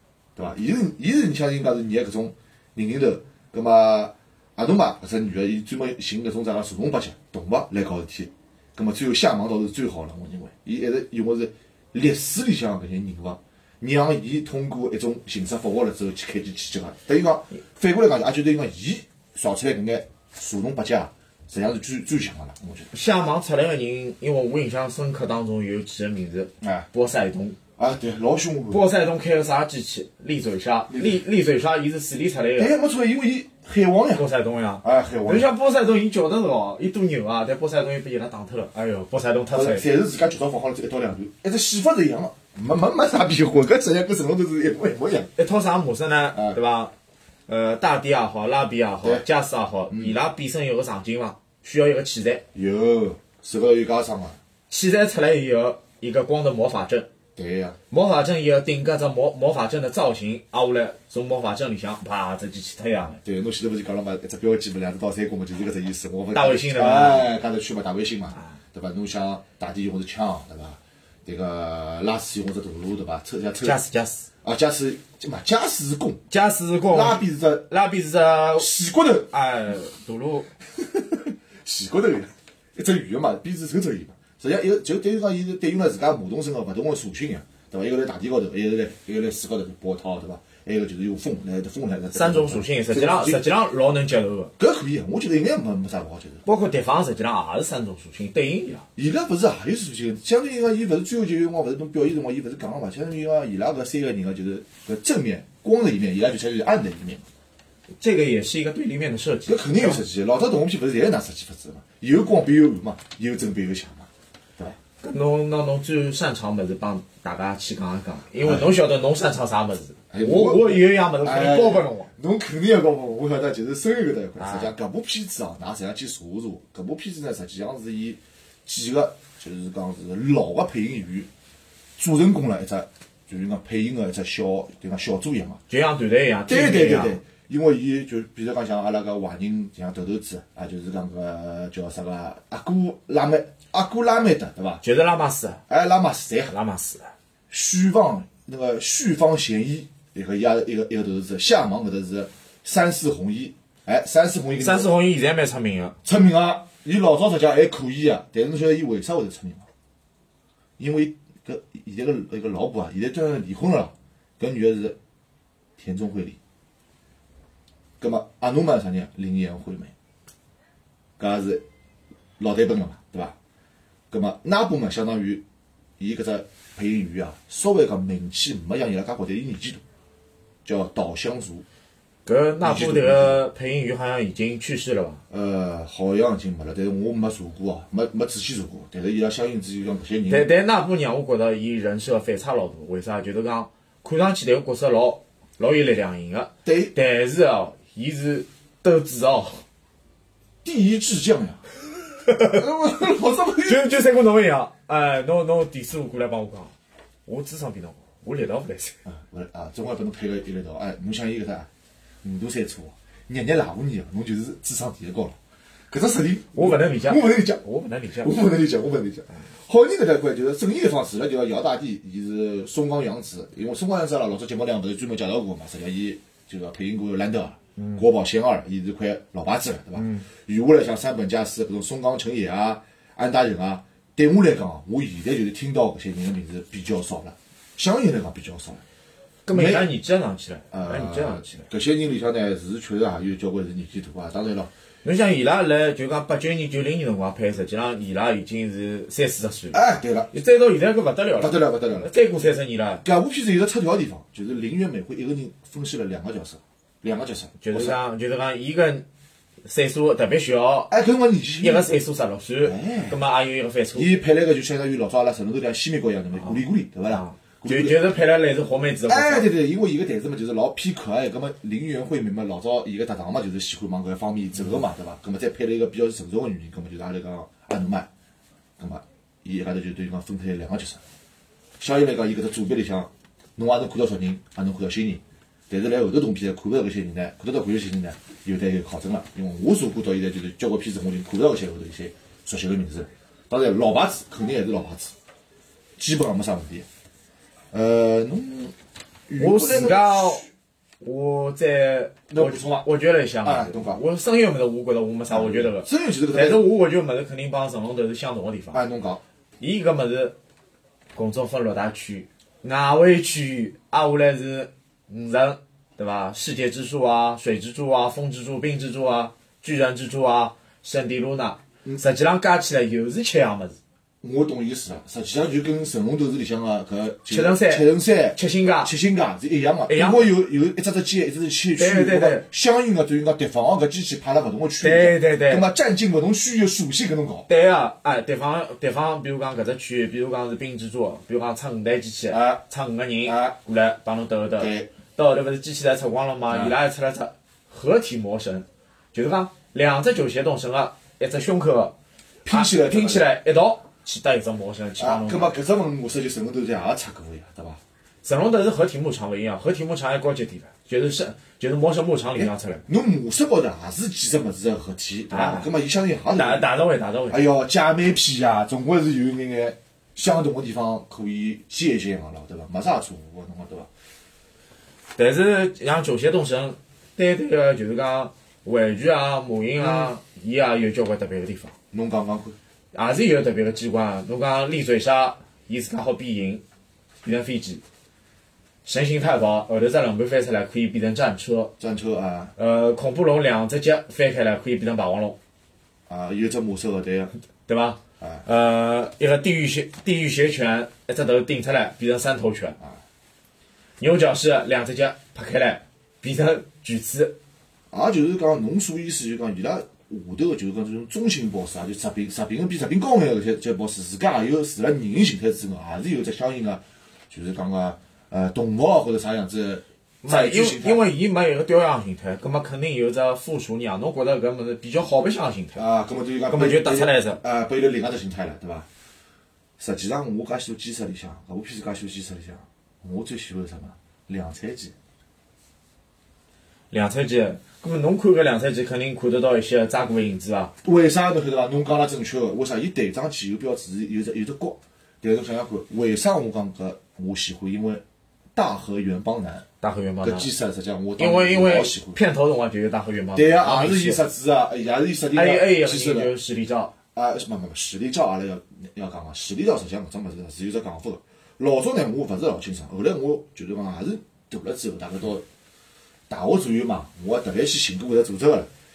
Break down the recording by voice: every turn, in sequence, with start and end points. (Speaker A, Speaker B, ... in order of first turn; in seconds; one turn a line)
Speaker A: 0.4-22.9
Speaker B: 22.9-27.6
Speaker A: 26.6-26.9
Speaker A: 27.8-28.9
Speaker B: 28.7-32.7
Speaker A: 30.9-31.2
Speaker A: 32.6-34.2
Speaker B: 34.1-39.9
Speaker A: 34.8-35.5
Speaker A: 39.5-45.3
Speaker B: 45.4-46.9
Speaker A: 46.3-46.6
Speaker B: 47.5-52.5
Speaker A: 49.9-50.2
Speaker A: 52.5-54.4
Speaker B: 54.7-57.1
Speaker A: 57.4-57.8
Speaker B: 57.9-63.2
Speaker A: 63.2-73.8
Speaker B: 66.3-67.3
Speaker B: 73.6-74.3
Speaker A: 74.4-76.2
Speaker B: 76.3-78.7
Speaker A: 76.9-77.7
Speaker A: 78.6-79.3
Speaker B: 79.3-80.5
Speaker A: 80.8-93.5
Speaker B: 92.1-94.5
Speaker A: 94.6-96.4
Speaker B: 96.5-98.8
Speaker A: 99.0-107.2
Speaker B: 108.0-110.0
Speaker A: 109.5-114.8
Speaker B: 115.0-122.1
Speaker A: 118.4-118.7
Speaker A: 120.1-131.3
Speaker B: 124.4-124.7
Speaker A: 132.0-135.6
Speaker B: 135.7-137.2
Speaker A: 136.5-144.8
Speaker B: 144.8-145.6
Speaker A: 145.7-146.5
Speaker B: 146.5-147.1
Speaker A: 147.5-154.9
Speaker B: 154.6-156.0
Speaker A: 156.0-159.7
Speaker A: 160.8-165.0
Speaker A: 165.8-166.4
Speaker A: 168.0-169.9
Speaker A: 171.2-171.6
Speaker A: 172.4-173.3
Speaker A: 174.1-175.4
Speaker A: 176.0-179.8
Speaker A: 180.7-181.7
Speaker B: 182.3-185.2
Speaker A: 182.6-183.4
Speaker A: 185.3-190.5
Speaker B: 190.3-199.6
Speaker A: 196.7-196.9
Speaker A: 200.6-201.6
Speaker A: 202.3-203.9
Speaker B: 202.3-202.6
Speaker B: 203.6-206.7
Speaker B: 207.3-209.0
Speaker A: 209.1-211.7
Speaker A: 212.2-215.4
Speaker A: 215.9-217.6
Speaker B: 216.5-218.3
Speaker A: 218.2-238.8
Speaker B: 227.8-228.0
Speaker B: 230.0-230.2
Speaker B: 239.5-241.7
Speaker A: 239.5-239.9
Speaker A: 240.7-244.7
Speaker B: 245.0-249.8
Speaker A: 249.7-250.3
Speaker B: 250.3-253.1
Speaker A: 251.4-252.1
Speaker A: 253.0-258.0
Speaker B: 257.6-259.1
Speaker B: 259.6-260.9
Speaker A: 260.9-261.9
Speaker B: 261.6-264.1
Speaker A: 262.6-263.2
Speaker A: 263.9-268.0
Speaker B: 267.1-269.5
Speaker A: 269.1-278.1
Speaker A: 278.8-281.0
Speaker A: 281.8-295.1
Speaker A: 296.0-296.9
Speaker A: 297.7-298.8
Speaker A: 299.3-300.5
Speaker B: 299.4-300.4
Speaker B: 301.0-308.8
Speaker A: 302.3-302.9
Speaker A: 303.4-304.0
Speaker A: 305.3-306.6
Speaker A: 308.7-309.2
Speaker B: 309.6-310.4
Speaker B: 311.1-323.8
Speaker A: 324.2-337.5
Speaker B: 327.3-328.9
Speaker B: 329.9-330.4
Speaker B: 331.8-332.5
Speaker B: 334.8-335.7
Speaker B: 337.5-351.9
Speaker A: 342.3-342.6
Speaker A: 343.2-343.6
Speaker A: 344.6-344.9
Speaker A: 346.5-346.8
Speaker A: 352.4-353.3
Speaker B: 352.5-355.5
Speaker A: 355.0-357.8
Speaker B: 358.2-362.9
Speaker A: 362.4-366.7
Speaker B: 365.3-365.7
Speaker B: 366.3-367.4
Speaker A: 367.3-373.9
Speaker B: 375.2-381.7
Speaker A: 379.8-380.1
Speaker A: 381.9-382.6
Speaker B: 382.9-386.6
Speaker B: 387.2-387.8
Speaker B: 388.9-391.8
Speaker A: 391.8-392.5
Speaker B: 392.6-395.4
Speaker A: 396.1-397.3
Speaker B: 397.7-402.8
Speaker B: 404.0-407.4
Speaker A: 407.9-421.1
Speaker B: 420.2-425.8
Speaker A: 425.8-428.9
Speaker B: 426.5-427.4
Speaker A: 429.8-434.9
Speaker B: 436.9-440.7
Speaker A: 440.8-448.0
Speaker A: 448.6-449.7
Speaker B: 449.8-450.5
Speaker A: 450.2-452.2
Speaker B: 451.2-454.2
Speaker A: 453.4-456.3
Speaker B: 455.3-456.9
Speaker A: 457.1-465.4
Speaker A: 466.3-468.7